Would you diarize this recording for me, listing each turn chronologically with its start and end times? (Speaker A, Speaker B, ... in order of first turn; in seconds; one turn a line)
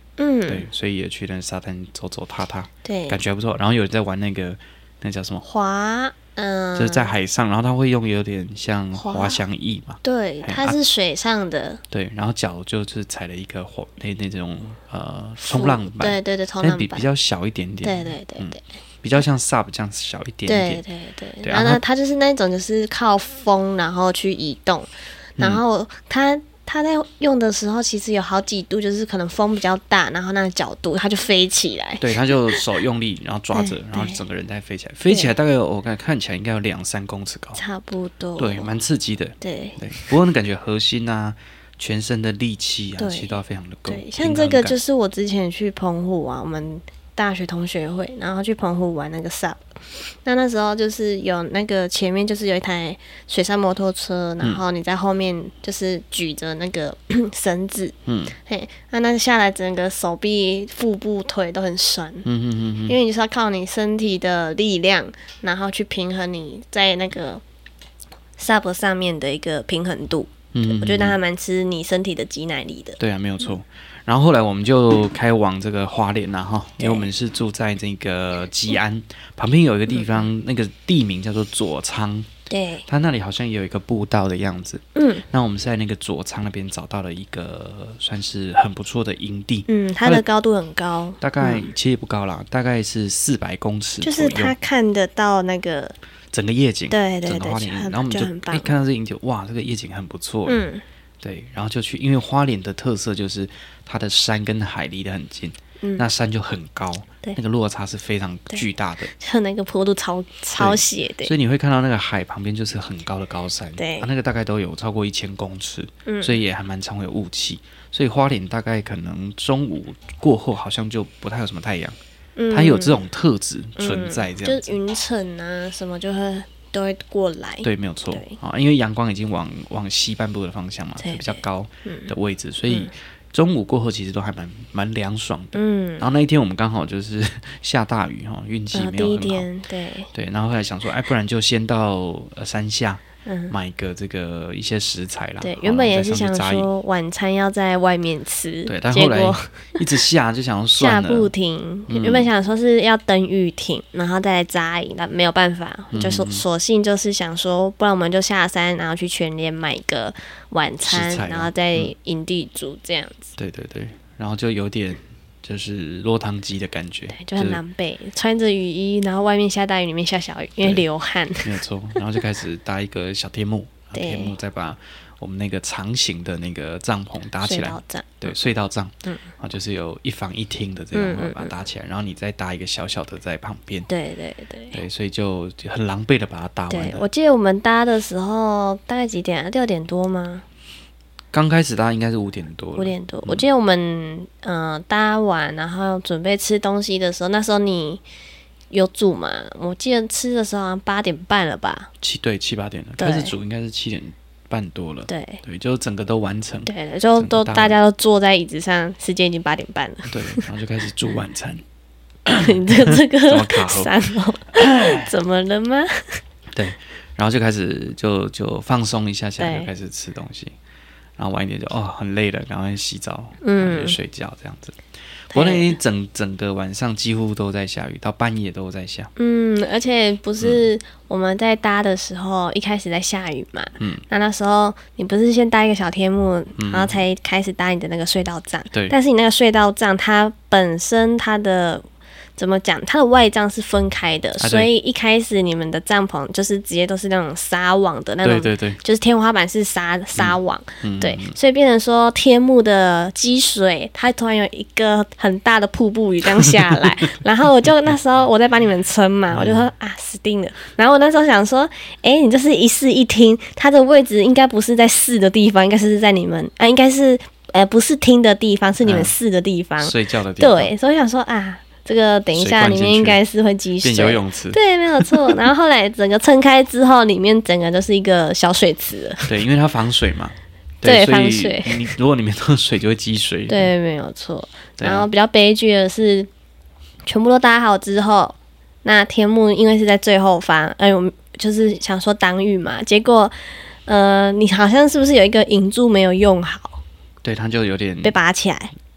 Speaker A: 0.2-0.7
Speaker B: 0.5-5.4
Speaker A: 2.8-3.2
Speaker A: 5.4-7.1
Speaker B: 6.8-10.8
Speaker A: 8.9-9.4
Speaker A: 10.0-11.8
Speaker B: 11.9-20.8
Speaker A: 15.4-17.1
Speaker A: 17.8-18.6
Speaker A: 20.5-32.7
Speaker B: 21.4-21.8
Speaker B: 25.4-25.6
Speaker B: 32.0-37.6
Speaker A: 33.5-34.2
Speaker A: 35.1-35.3
Speaker A: 37.5-38.7
Speaker B: 38.4-44.8
Speaker A: 39.4-40.1
Speaker A: 43.0-49.6
Speaker A: 50.2-62.3
Speaker B: 58.0-58.3
Speaker B: 62.2-63.0
Speaker A: 62.9-67.4
Speaker A: 68.4-73.0
Speaker B: 70.5-71.2
Speaker B: 73.0-82.3
Speaker A: 76.8-77.1
Speaker A: 82.5-82.8
Speaker B: 82.9-90.2
Speaker A: 84.9-85.2
Speaker A: 89.7-91.7
Speaker B: 91.2-94.5
Speaker A: 94.0-95.9
Speaker B: 96.3-100.6
Speaker A: 96.9-98.7
Speaker A: 100.5-100.8
Speaker B: 101.2-109.1
Speaker A: 105.8-106.0
Speaker A: 108.5-111.3
Speaker B: 110.6-122.0
Speaker A: 113.8-114.1
Speaker A: 116.0-116.4
Speaker A: 122.4-123.0
Speaker B: 122.5-124.8
Speaker A: 123.8-128.4
Speaker B: 127.6-139.5
Speaker A: 131.0-132.1
Speaker A: 135.5-136.1
Speaker A: 138.7-140.1
Speaker B: 140.1-146.7
Speaker A: 143.2-143.5
Speaker A: 145.4-149.8
Speaker B: 148.7-151.3
Speaker A: 150.8-163.3
Speaker B: 151.9-152.3
Speaker B: 155.9-156.4
Speaker B: 160.8-161.9
Speaker B: 163.4-167.6
Speaker A: 167.1-172.0
Speaker B: 171.4-183.9
Speaker A: 173.9-174.3
Speaker A: 177.4-178.4
Speaker A: 180.9-181.5
Speaker A: 183.9-184.8
Speaker B: 184.7-187.1
Speaker A: 186.7-190.4
Speaker B: 191.3-193.4
Speaker A: 192.8-198.0
Speaker A: 198.7-201.9
Speaker B: 202.0-207.8
Speaker A: 203.0-203.3
Speaker A: 205.1-205.4
Speaker A: 206.7-210.4
Speaker B: 210.1-211.6
Speaker B: 212.2-213.9
Speaker A: 212.3-216.2
Speaker B: 214.5-215.1
Speaker B: 216.5-220.5
Speaker A: 219.4-219.7
Speaker B: 221.2-224.8
Speaker A: 223.4-224.0
Speaker B: 225.3-229.1
Speaker A: 225.3-225.8
Speaker A: 229.2-241.8
Speaker B: 230.4-230.6
Speaker B: 233.8-234.0
Speaker B: 236.6-237.0
Speaker A: 242.4-279.3
Speaker B: 244.4-244.7
Speaker B: 248.2-248.8
Speaker B: 250.2-251.3
Speaker B: 256.4-256.9
Speaker B: 259.3-259.7
Speaker B: 268.8-269.1
Speaker B: 269.8-270.7
Speaker B: 272.3-273.2
Speaker B: 273.8-275.4
Speaker B: 279.2-283.7
Speaker A: 280.8-281.9
Speaker A: 283.5-286.3
Speaker B: 284.8-285.1
Speaker A: 287.1-293.3
Speaker A: 293.9-296.8
Speaker B: 297.2-298.2
Speaker A: 298.0-298.7